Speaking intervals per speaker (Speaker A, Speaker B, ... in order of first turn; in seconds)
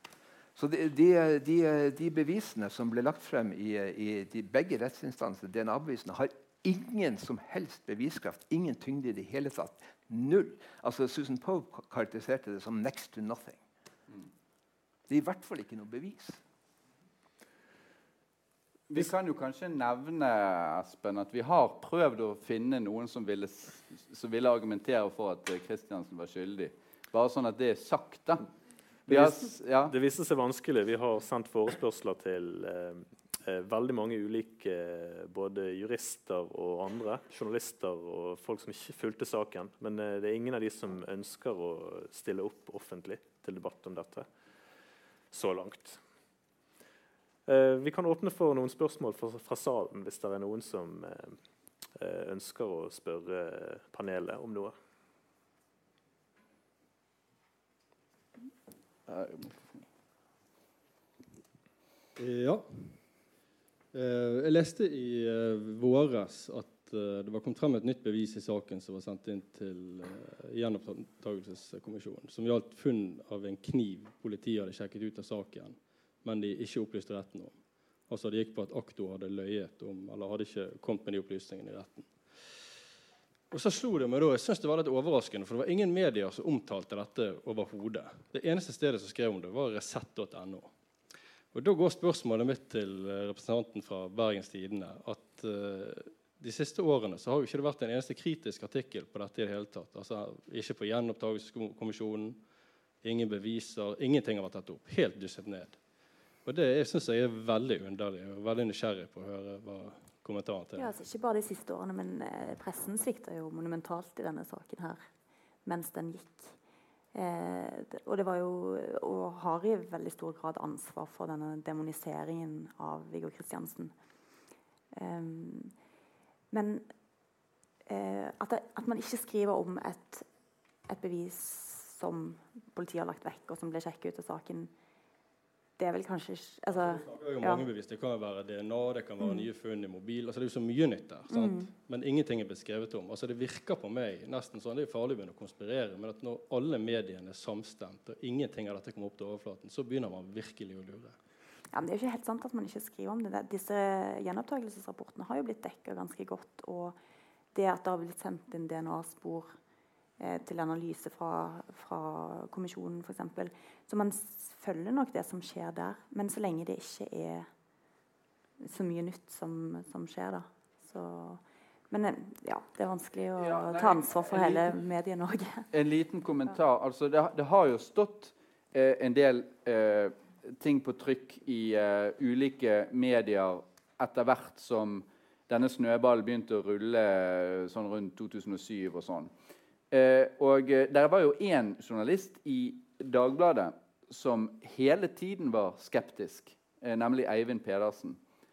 Speaker A: 0.5-13.6, 15.1-16.4
Speaker B: 18.9-28.5, 29.1-29.9, 59.1-59.8, 173.3-174.8, 175.7-189.3, 189.9-198.2
Speaker C: 29.1-44.3, 45.3-46.0, 47.5-51.4, 52.0-54.7
Speaker D: 62.2-63.0, 63.9-82.5, 83.5-90.7, 91.5-102.4, 103.0-105.8, 106.4-110.9, 136.7-151.2
Speaker E: 110.8-115.0, 115.6-116.5, 117.1-123.9, 124.9-125.7, 126.5-126.8, 127.9-130.2, 130.9-134.7, 135.8-137.7, 139.2-139.5, 141.3-141.7, 151.7-157.0, 157.5-159.6, 160.2-167.5, 168.6-175.7